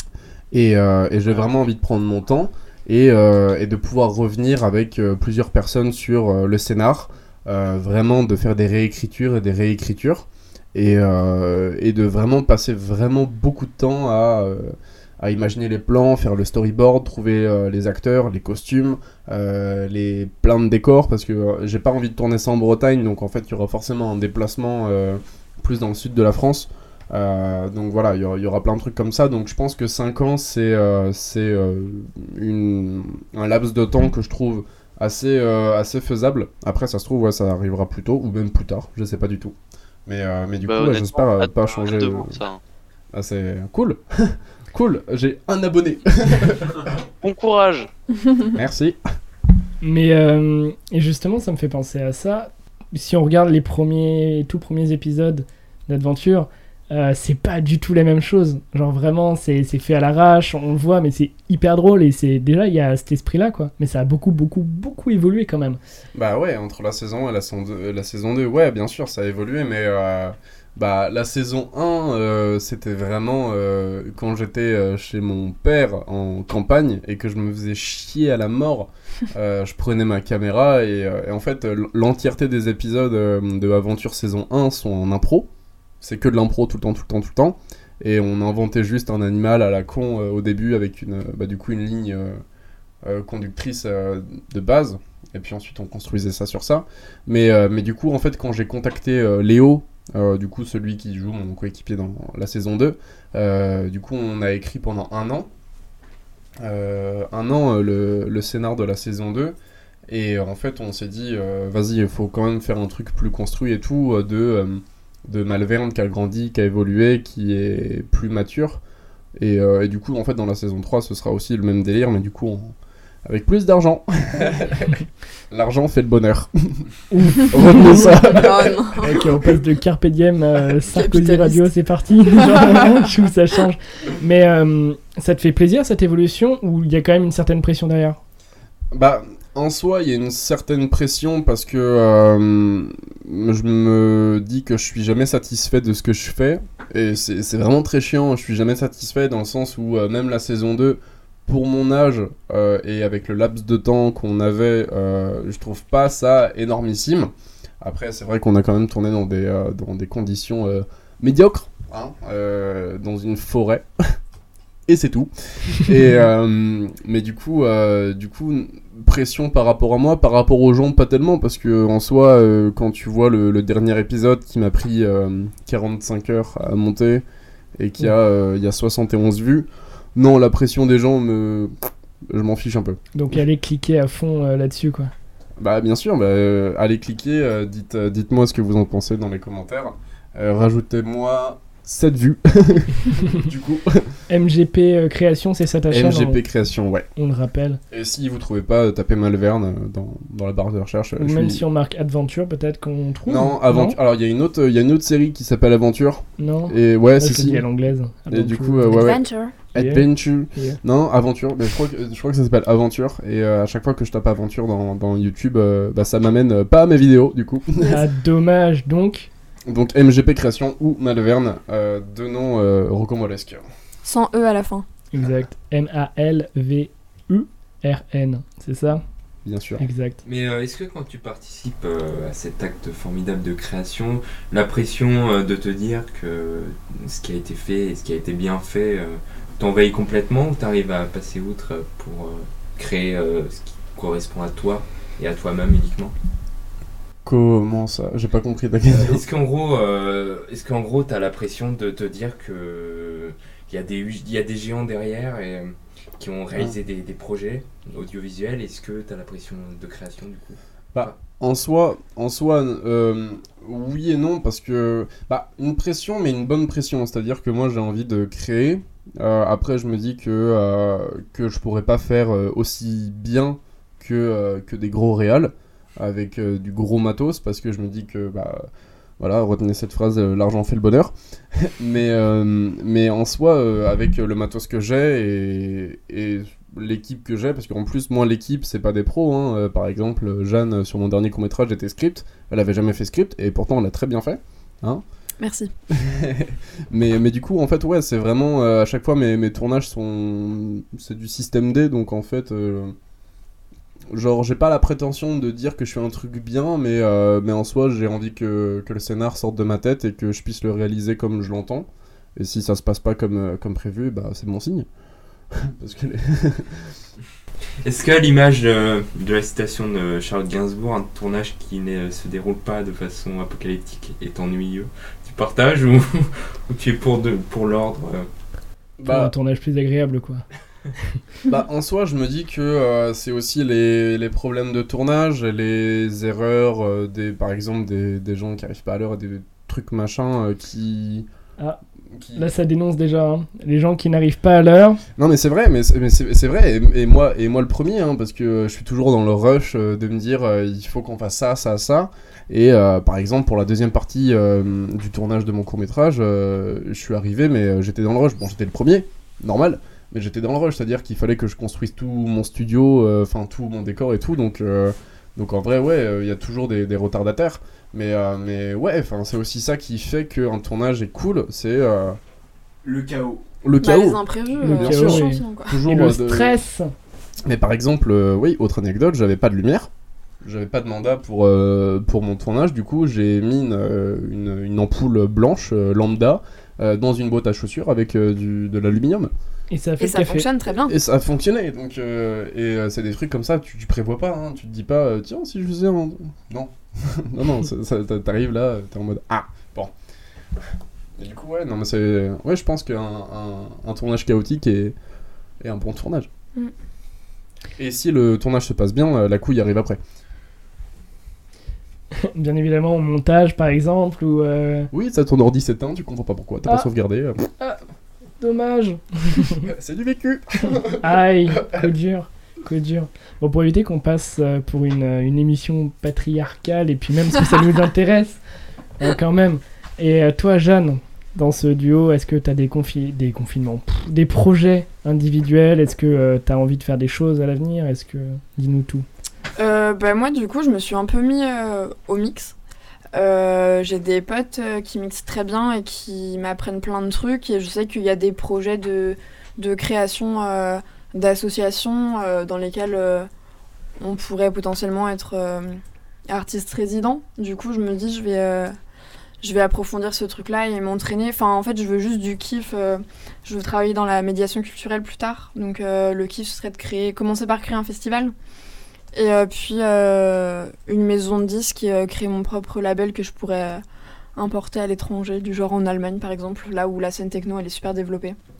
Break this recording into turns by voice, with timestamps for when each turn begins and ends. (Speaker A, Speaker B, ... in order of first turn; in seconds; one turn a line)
Speaker A: 0.5-39.5
Speaker A: 40.0-42.4
Speaker B: 40.6-42.6
Speaker A: 43.1-46.9
Speaker B: 47.2-47.9
Speaker A: 48.5-49.0
Speaker C: 49.8-65.8
Speaker A: 66.1-85.5
Speaker A: 86.0-92.4
Speaker A: 93.0-105.5
Speaker A: 106.6-109.5
Speaker A: 110.1-118.8
Speaker A: 119.3-126.9
Speaker C: 127.1-128.4
Speaker A: 127.4-129.0
Speaker D: 128.3-129.1
Speaker C: 129.0-138.2
Speaker D: 130.9-131.6
Speaker A: 138.9-163.9
Speaker A: 164.9-177.2
Speaker A: 177.8-181.7
Speaker A: 182.3-183.0
Speaker C: 183.1-185.1
Speaker A: 185.6-194.1
Speaker C: 194.3-196.4
Speaker A: 195.9-197.1
Speaker C: 197.2-197.8
Speaker A: 197.9-201.6
Speaker C: 201.2-204.0
Speaker A: 203.2-207.7
Speaker C: 206.4-209.1
Speaker A: 208.3-218.0
Speaker D: 208.9-209.5
Speaker C: 209.7-210.8
Speaker C: 217.8-219.3
Speaker A: 219.7-223.6
Speaker D: 224.0-224.8
Speaker C: 225.1-229.0
Speaker A: 229.4-229.8
Speaker C: 229.8-230.2
Speaker E: 230.2-246.1
Speaker A: 247.2-249.2
Speaker E: 248.9-261.2
Speaker A: 260.9-278.7
Speaker A: 279.2-295.0
Speaker D: 295.4-295.7
Speaker A: 295.9-302.9
Speaker A: 304.1-314.9
Speaker A: 315.5-316.8
Speaker E: 317.8-328.3
Speaker A: 329.0-329.3
Speaker C: 329.0-330.4
Speaker A: 331.4-341.3
Speaker A: 342.1-342.5
Speaker C: 342.3-345.0
Speaker A: 345.2-372.2
Speaker E: 372.8-373.4
Speaker A: 373.6-376.6
Speaker D: 373.8-375.8
Speaker C: 374.6-376.9
Speaker A: 377.4-379.9
Speaker A: 380.4-389.3
Speaker C: 389.7-390.5
Speaker D: 390.0-390.9
Speaker A: 390.8-399.9
Speaker A: 401.2-404.9
Speaker A: 405.6-406.3
Speaker A: 407.8-410.0
Speaker C: 412.2-414.9
Speaker A: 414.9-417.4
Speaker C: 418.4-419.7
Speaker A: 419.6-421.0
Speaker C: 421.0-428.4
Speaker A: 421.6-421.9
Speaker C: 429.0-439.1
Speaker D: 439.6-442.5
Speaker D: 443.1-453.3
Speaker D: 454.0-458.7
Speaker D: 459.4-468.3
Speaker D: 469.1-473.8
Speaker D: 474.4-478.4